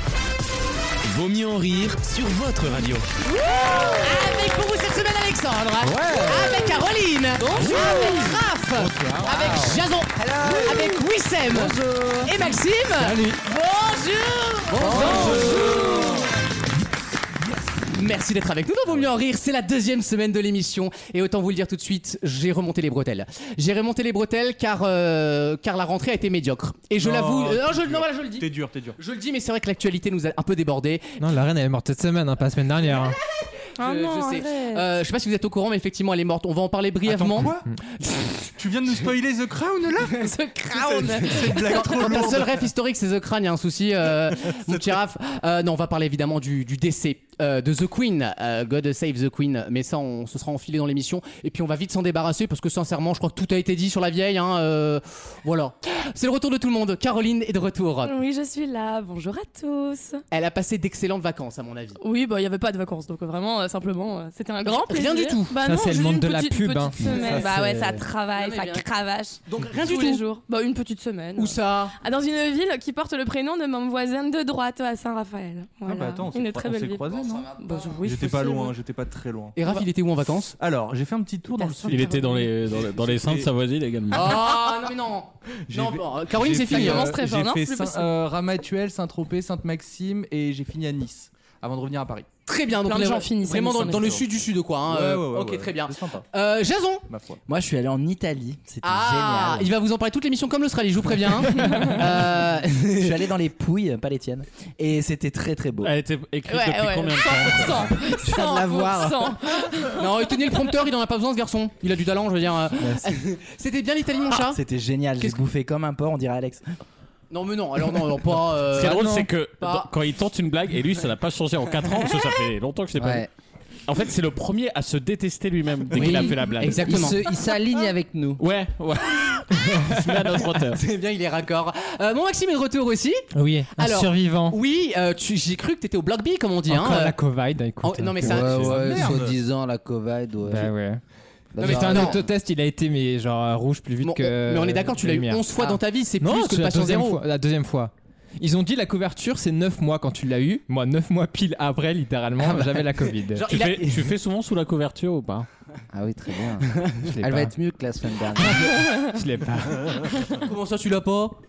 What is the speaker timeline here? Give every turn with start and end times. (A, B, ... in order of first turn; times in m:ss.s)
0:01.0-0:03.1 A
0:04.0-0:16.1 B
0:05.9-0:06.5 C
0:06.0-0:06.5 D
0:07.6-0:08.2 E
0:07.7-0:08.1 D
0:07.8-0:08.1 F
0:08.8-0:09.3 G
0:10.3-0:10.9 D
0:10.4-0:10.9 F
0:11.5-0:12.3 F
0:14.7-0:16.1 F
0:14.8-0:16.1 D
0:17.9-0:28.5 B
0:27.0-0:29.0 G
0:29.0-0:31.2 B
0:31.2-0:33.2 C
0:33.8-0:34.9 E
0:33.8-0:37.5 B
0:37.0-0:37.7 G
0:38.0-0:38.5 B
0:38.6-0:42.7 G
0:40.1-0:42.3 E
0:41.3-0:58.2 B
0:44.5-0:45.0 G
0:58.0-1:00.2 E
1:00.3-1:02.0 B
1:02.0-1:18.8 E
1:04.8-1:05.5 B
1:05.6-1:07.1 C
1:07.0-1:07.6 G
1:07.1-1:07.5 B
1:08.3-1:08.8 B
1:09.4-1:10.2 B
1:11.4-1:11.9 B
1:15.8-1:17.4 G
1:17.3-1:17.9 F
1:18.0-1:19.6 G
1:19.6-1:20.5 B
1:20.6-1:22.1 G
1:21.5-1:22.5 E
1:21.9-1:24.4 H
1:22.8-1:23.4 G
1:24.1-1:27.1 B
1:25.7-1:32.3 G
1:26.6-1:28.1 E
1:32.4-1:37.0 B
1:32.8-1:34.2 E
1:34.9-1:36.2 G
1:37.1-1:37.4 G
1:37.5-1:39.7 D
1:38.8-1:43.3 B
1:41.8-1:45.9 D
1:45.8-1:48.0 H
1:46.5-1:50.1 E
1:48.3-1:49.1 D
1:50.0-1:54.6 B
1:52.8-1:53.1 D
1:54.5-1:56.6 D
1:57.3-1:59.9 B
1:58.7-2:03.2 H
2:03.0-2:03.3 F
2:03.8-2:07.0 H
2:05.9-2:07.3 B
2:06.0-2:08.4 F
2:08.4-2:10.8 H
2:10.7-2:17.2 B
2:13.3-2:14.6 C
2:16.7-2:18.7 C
2:17.8-2:19.0 B
2:18.2-2:20.7 F
2:18.4-2:19.4 G
2:20.4-2:21.0 C
2:21.5-2:22.3 F
2:21.6-2:22.2 B
2:21.6-2:33.4 C
2:24.0-2:27.2 B
2:33.3-2:34.1 B
2:33.5-2:35.5 H
2:35.9-2:36.7 F
2:37.0-2:37.5 C
2:37.2-2:38.8 F
2:38.4-2:40.4 C
2:40.4-2:41.4 B